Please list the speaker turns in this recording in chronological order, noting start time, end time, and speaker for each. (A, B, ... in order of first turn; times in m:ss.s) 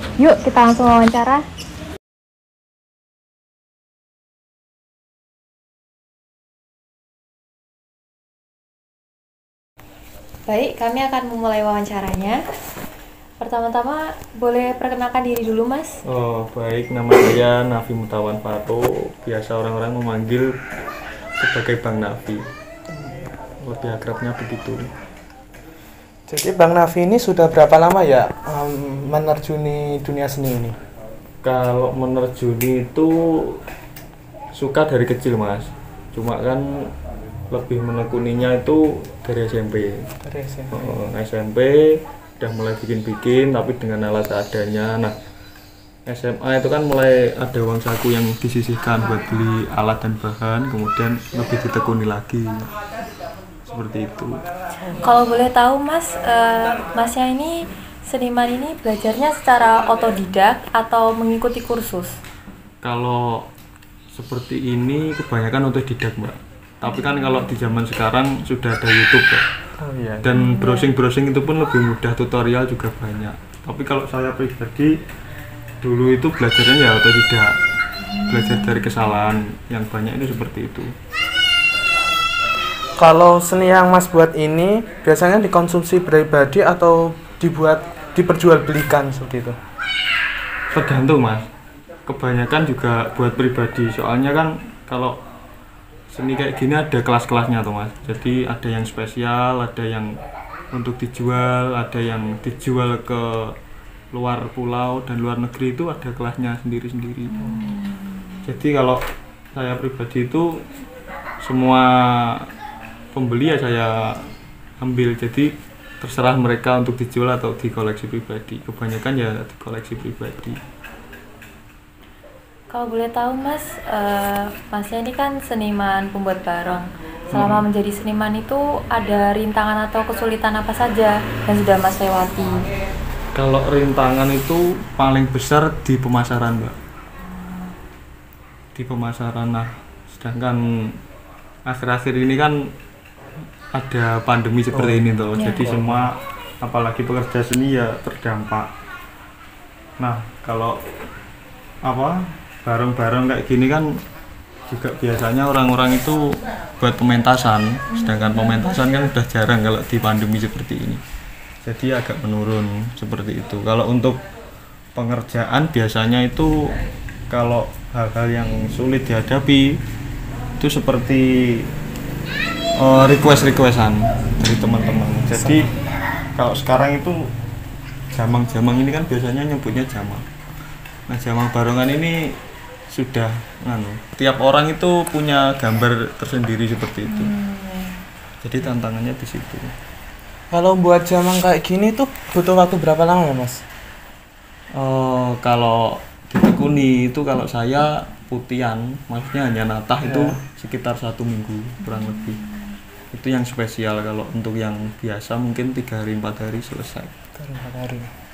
0:00.2-0:01.4 A
0:10.5-0:12.4 A
0:13.4-0:16.0 A
0:16.0-0:20.5 B
0:21.4-0:22.4 B
0:23.6-0:24.9 B
0:26.3-0:30.8 C
0:31.4-0:33.6 B
0:34.5-0:36.9 B
0:37.5-0:40.1 B
0:40.2-0:40.8 C
0:40.7-0:45.1 B
0:46.1-0:52.7 B
0:53.7-0:54.4 B
0:55.0-0:57.5 A
0:58.1-1:02.1 A
1:02.8-1:03.5 B
1:04.1-1:09.4 B
1:09.8-1:10.3 C
1:10.2-1:14.9 B
1:10.4-1:10.9 A
1:15.8-1:17.6 B
1:18.1-1:18.5 A
1:18.3-1:20.9 B
1:23.0-1:29.6 C
1:30.7-1:31.5 B
1:32.1-1:35.2 B
1:36.1-1:40.2 B
1:40.7-1:43.6 B
1:44.1-1:47.6 B
1:47.4-1:48.3 A
1:48.4-1:49.0 B
1:49.5-1:50.6 B
1:51.4-1:52.5 B
1:53.1-1:54.3 B
1:54.8-2:00.6 B
2:02.7-2:12.7 A
2:07.3-2:07.6 B
2:13.3-2:16.8 B
2:18.7-2:21.0 B
2:21.6-2:22.7 B
2:23.7-2:28.7 B
2:24.7-2:26.1 C
2:25.4-2:25.7 A
2:30.0-2:30.8 B
2:31.8-2:34.0 B
2:34.7-2:41.0 B
2:37.9-2:38.7 A
2:41.6-2:44.2 B
2:44.9-2:46.7 B
2:47.3-2:49.8 B
2:50.6-2:51.7 B
2:52.8-2:55.6 B
2:55.2-2:55.7 C
2:56.4-2:57.3 B
2:58.1-3:00.2 B
3:01.1-3:02.4 B
3:02.9-3:07.3 B
3:07.0-3:08.0 A
3:08.4-3:09.7 B
3:10.5-3:13.6 C
3:14.7-3:22.4 B
3:20.0-3:20.4 C
3:21.8-3:22.7 A
3:23.1-3:27.1 B
3:27.4-3:28.1 C